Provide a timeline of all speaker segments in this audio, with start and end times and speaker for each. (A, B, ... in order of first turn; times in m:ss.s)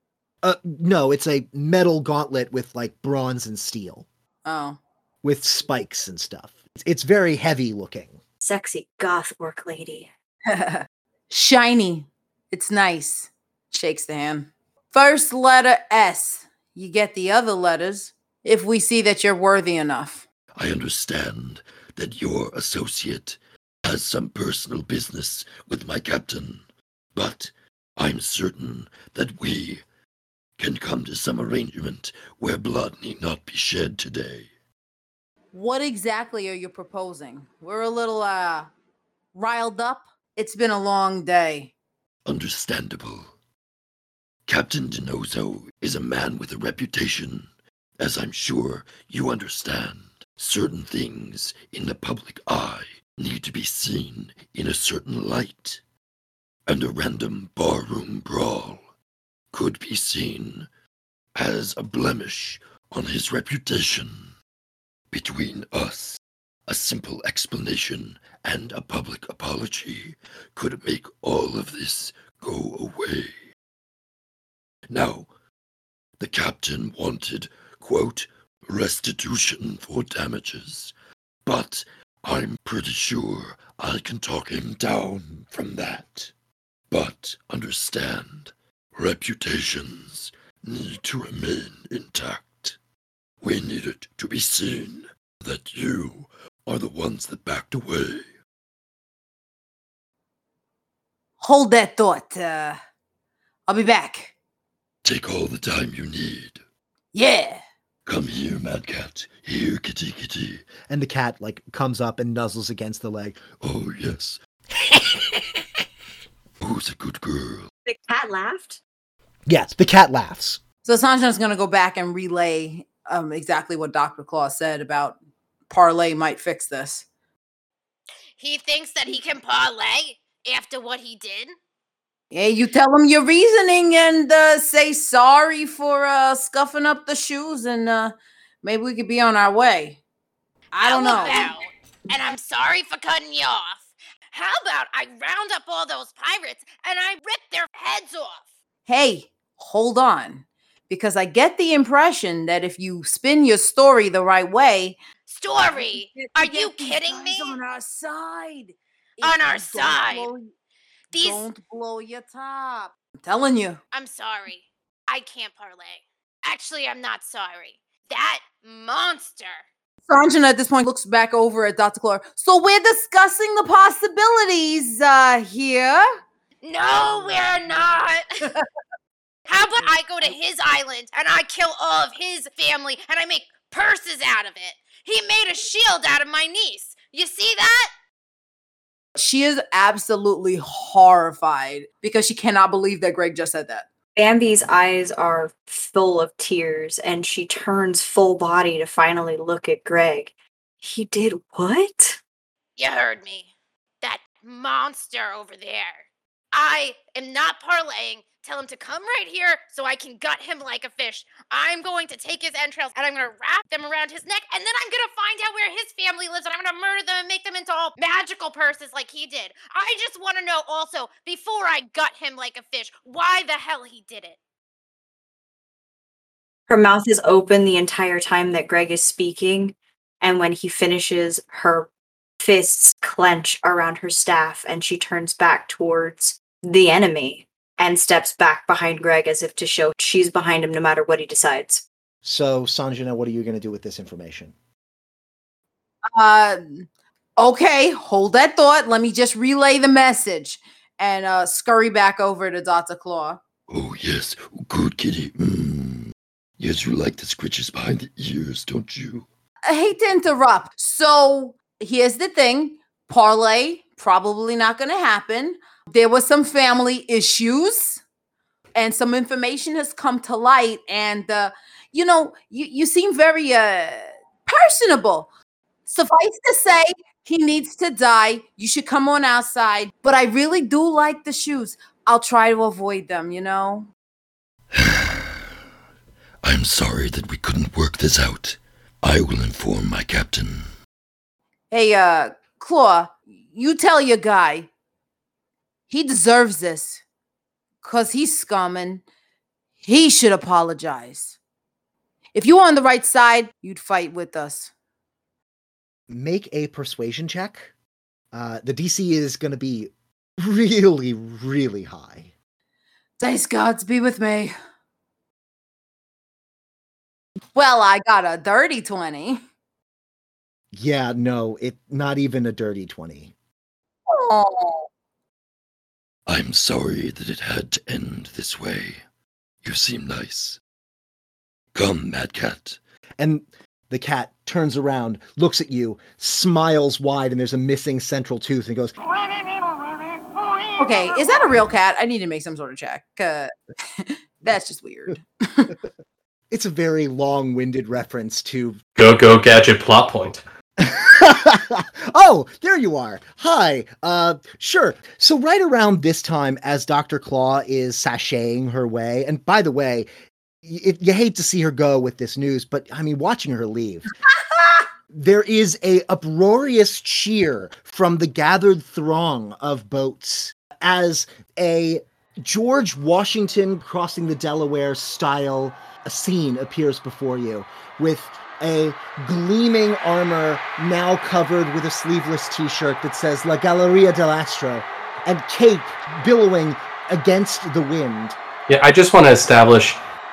0:00.4-0:04.0 A
0:04.4-0:04.8 B
0:05.2-0:08.2 A
0:08.4-0:10.1 C
0:10.5-0:20.2 B
0:20.5-0:26.6 D
0:27.1-0:29.8 D
0:30.6-0:34.5 D
0:35.5-0:38.7 B
0:39.3-0:41.7 B
0:42.2-0:43.3 D
0:44.5-0:55.8 D
0:56.7-0:58.8 D
0:59.5-1:00.7 D
1:01.3-1:04.3 D
1:05.1-1:13.4 D
1:14.9-1:15.3 D
1:16.2-1:20.9 D
1:21.4-1:26.3 D
1:26.9-1:32.8 D
1:33.4-1:38.2 D
1:41.4-1:42.8 B
1:43.7-1:44.3 B
1:45.0-1:46.6 D
1:47.1-1:47.6 B
1:48.0-1:50.7 D
1:50.9-1:53.5 A
1:53.6-1:54.4 D
1:56.6-1:57.7 D
1:57.8-1:58.8 C
1:59.5-2:00.6 A
2:00.8-2:05.2 B
2:05.7-2:07.0 B
2:08.4-2:11.5 E
2:12.3-2:20.0 B
2:20.7-2:21.5 B
2:20.8-2:28.4 E
2:28.8-2:35.0 B
2:35.3-2:37.6 E
2:35.6-2:40.5 B
2:39.2-2:40.3 E
2:41.1-2:41.4 E
2:41.1-2:43.8 B
2:43.9-2:49.6 E
2:50.1-2:56.1 B
2:56.6-2:58.2 E
2:59.5-3:07.9 E
3:09.2-3:13.9 B
3:14.2-3:22.2 C
3:22.8-3:23.5 E
3:24.0-3:44.4 E
3:46.7-4:01.8 C
4:02.2-4:04.5 A
4:06.1-4:13.4 B
4:13.7-4:19.3 D
4:19.7-4:28.0 B
4:28.7-4:35.3 B
4:35.8-4:43.9 B
4:44.7-4:45.4 D
4:46.4-4:50.7 D
4:51.7-4:54.7 B
4:55.9-4:57.0 B
4:57.8-4:59.0 B
4:59.8-5:01.4 B
5:02.3-5:04.7 B
5:06.1-5:07.7 A
5:08.3-5:12.3 A
5:13.2-5:14.5 B
5:17.5-5:19.4 B
5:20.7-5:23.3 A
5:24.1-5:24.9 B
5:26.3-5:29.0 D
5:29.6-5:30.6 D
5:31.7-5:32.8 D
5:33.2-5:39.0 A
5:40.8-5:45.7 B
5:46.5-5:48.8 A
5:49.0-5:50.4 F
5:50.8-6:00.1 A
6:00.6-6:04.1 A
6:05.1-6:28.4 A
6:28.7-6:30.0 F